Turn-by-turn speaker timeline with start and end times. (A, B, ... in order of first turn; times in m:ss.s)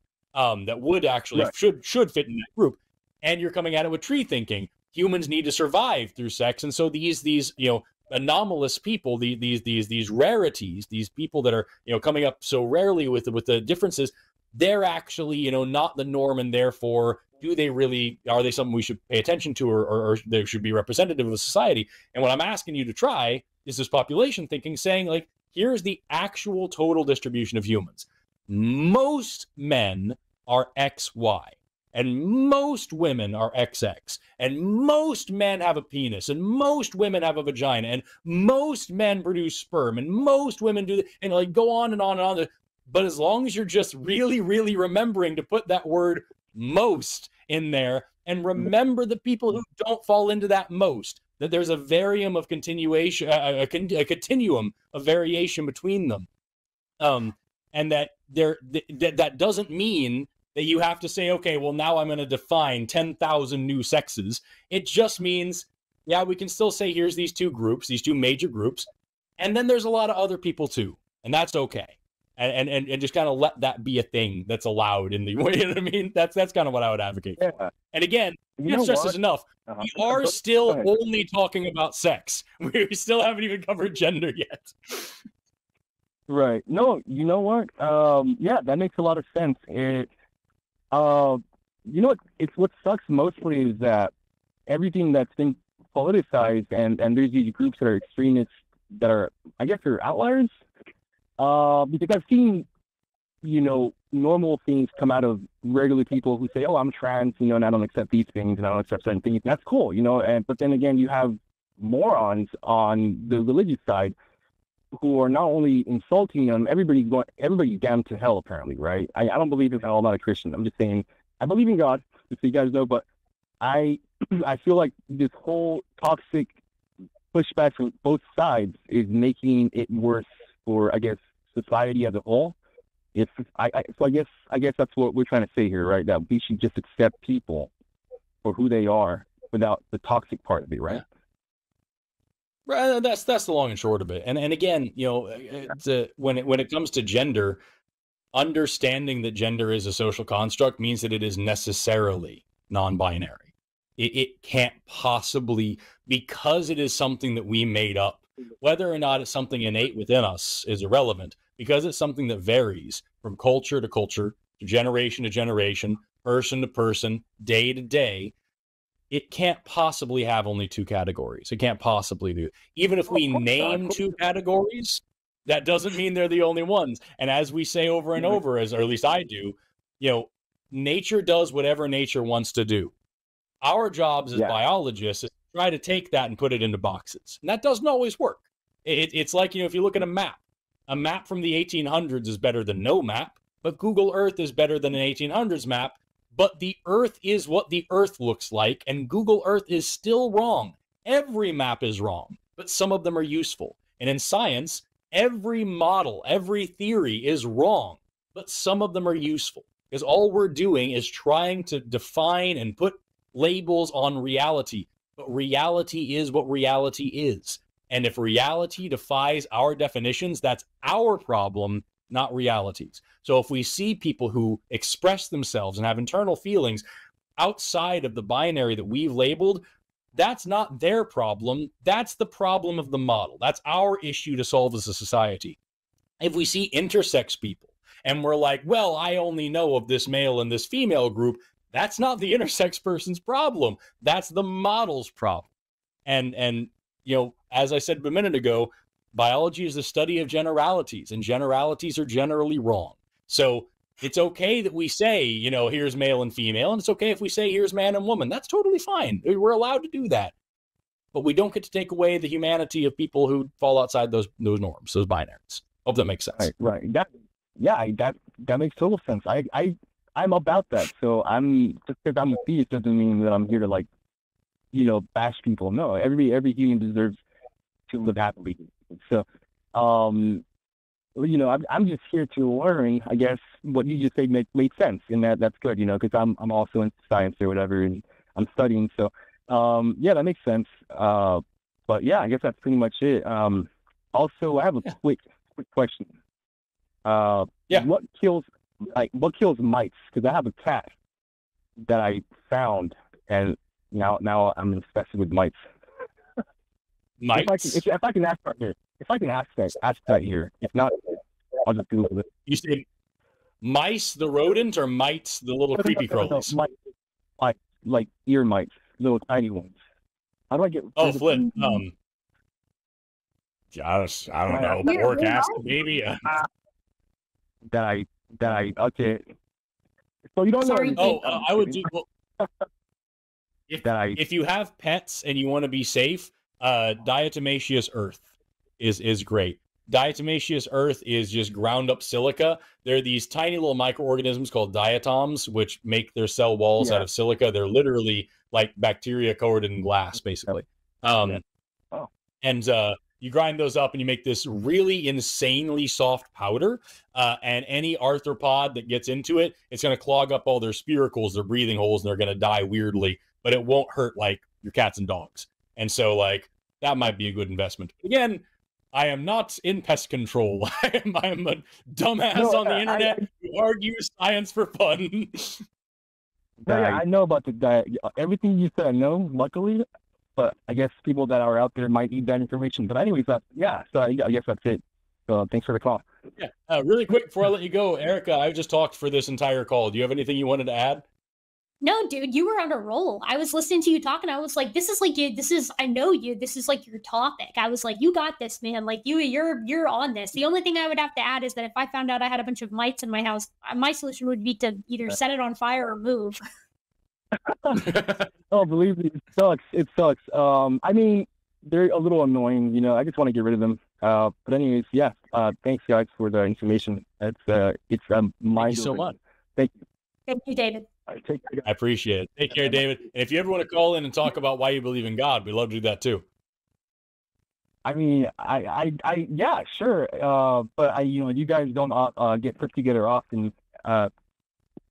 0:00.4-0:56.3 A
0:57.0-1:08.9 A
1:09.4-1:17.4 A
1:17.4-1:17.7 B
1:17.9-1:25.2 A
1:18.6-1:19.2 B
1:19.7-1:20.9 B
1:26.3-1:30.1 B
1:30.9-1:34.1 B
1:34.7-1:40.5 B
1:41.4-1:42.7 B
1:43.4-1:54.2 B
1:54.9-2:03.0 B
2:03.6-2:06.6 B
2:07.3-2:12.6 B
2:13.1-2:17.7 B
2:18.4-2:21.0 B
2:22.7-2:27.6 A
2:28.3-2:48.3 A
2:49.1-3:02.9 A
3:03.6-3:46.8 A
3:47.4-3:49.6 A
3:50.1-3:55.6 A
3:56.2-4:05.5 A
4:06.1-4:20.3 A
4:21.1-4:26.5 A
4:26.4-4:33.9 B
4:34.7-4:37.2 B
4:37.9-4:40.4 B
4:41.2-4:56.1 B
4:57.0-5:00.9 B
5:01.8-5:05.5 B
5:07.2-5:07.8 A
5:07.3-5:12.3 B
5:12.5-5:12.8 A
5:13.6-5:16.6 A
5:15.8-5:16.7 B
5:17.4-5:19.8 B
5:20.5-5:21.5 B
5:21.0-5:21.9 A
5:23.7-5:26.3 A
5:24.5-5:24.9 B
5:24.8-5:25.6 C
5:27.7-5:29.2 B
5:30.3-5:31.9 B
5:30.6-5:31.2 C
5:31.0-5:32.0 A
5:33.7-5:38.2 A
5:33.8-5:34.2 B
5:38.8-5:51.4 A
5:46.8-5:47.1 B
5:52.4-6:15.6 A
6:12.4-6:13.2 B
6:16.6-6:26.0 B
6:16.6-6:17.0 A
6:26.4-6:31.0 A
6:31.8-6:46.4 C
6:47.4-6:47.9 B
6:47.8-6:48.3 A
6:48.5-6:59.7 B
6:58.6-6:59.2 A
7:00.3-7:00.9 C
7:01.1-7:01.6 B
7:01.6-7:06.2 A
7:07.8-7:14.1 B